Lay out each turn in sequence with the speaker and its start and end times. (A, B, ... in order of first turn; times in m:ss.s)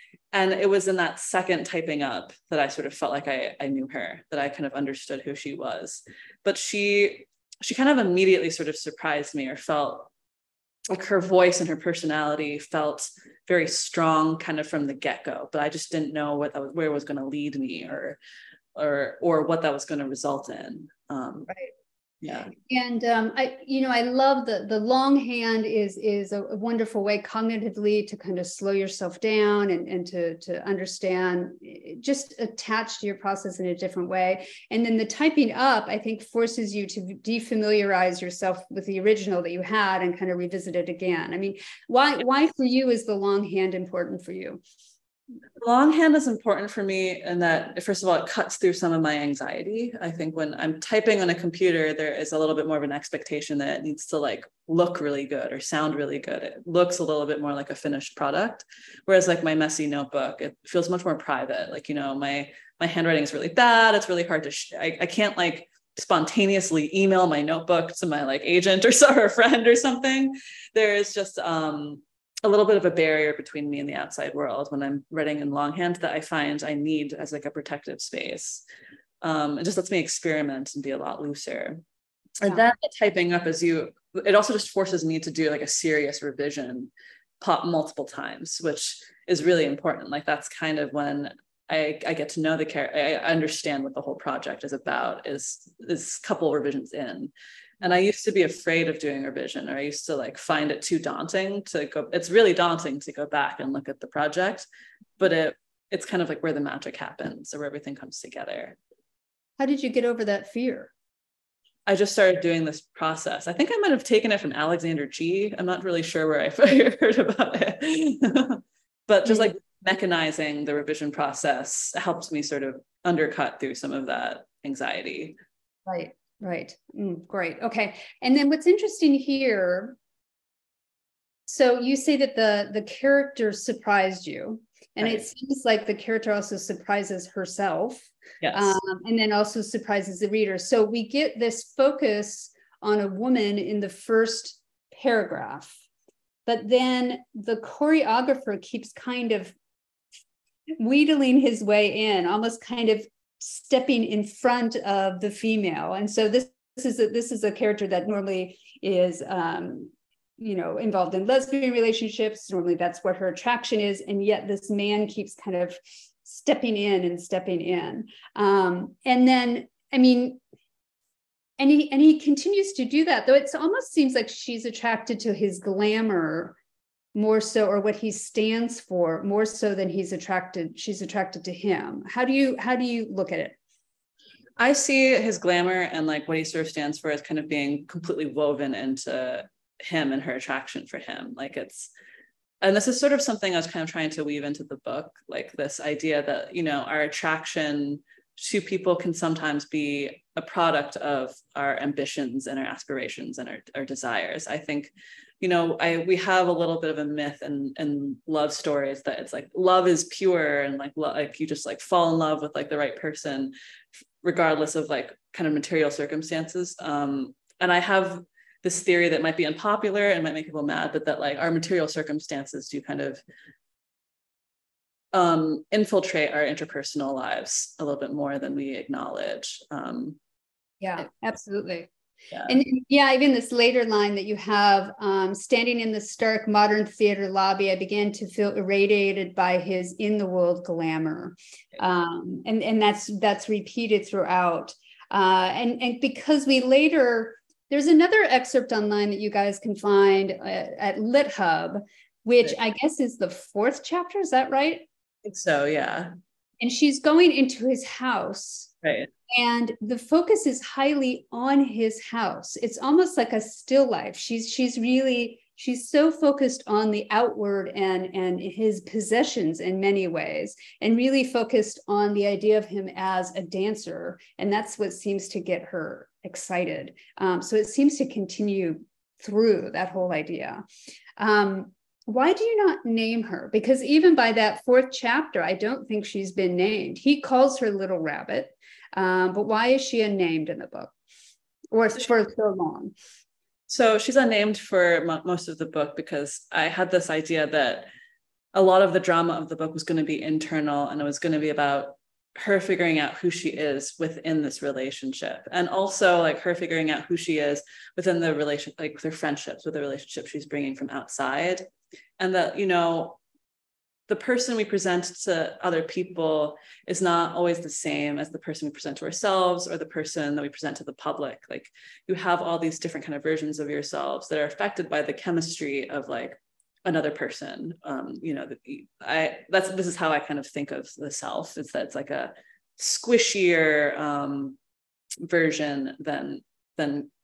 0:00.3-0:10.1 A
0:10.9-0:18.2 A
0:18.7-0:21.5 A
0:22.2-0:22.5 A
0:22.7-0:44.6 B
0:45.6-1:18.6 A
1:19.2-1:21.8 A
1:22.4-1:44.7 A
1:45.2-1:48.8 A
1:49.6-1:50.9 B
1:51.8-2:05.4 A
1:59.2-1:59.5 B
2:05.8-2:10.0 B
2:11.5-2:25.8 B
2:18.4-2:18.8 A
2:26.4-2:29.5 B
2:30.8-2:50.4 B
2:51.6-2:56.6 B
2:57.1-3:03.6 B
3:04.6-3:11.9 A
3:12.6-3:33.5 A
3:34.2-3:43.2 A
3:45.1-3:50.2 A
3:50.8-3:51.9 B
3:52.4-4:14.9 B
4:15.2-4:16.1 A
4:16.6-4:18.7 B
4:18.8-4:19.1 A
4:19.3-4:40.6 B
4:41.2-4:50.9 B
4:51.7-4:52.9 B
4:53.7-4:57.9 A
4:58.5-5:11.6 A
5:12.2-5:13.2 A
5:14.1-5:34.6 A
5:35.2-5:37.1 A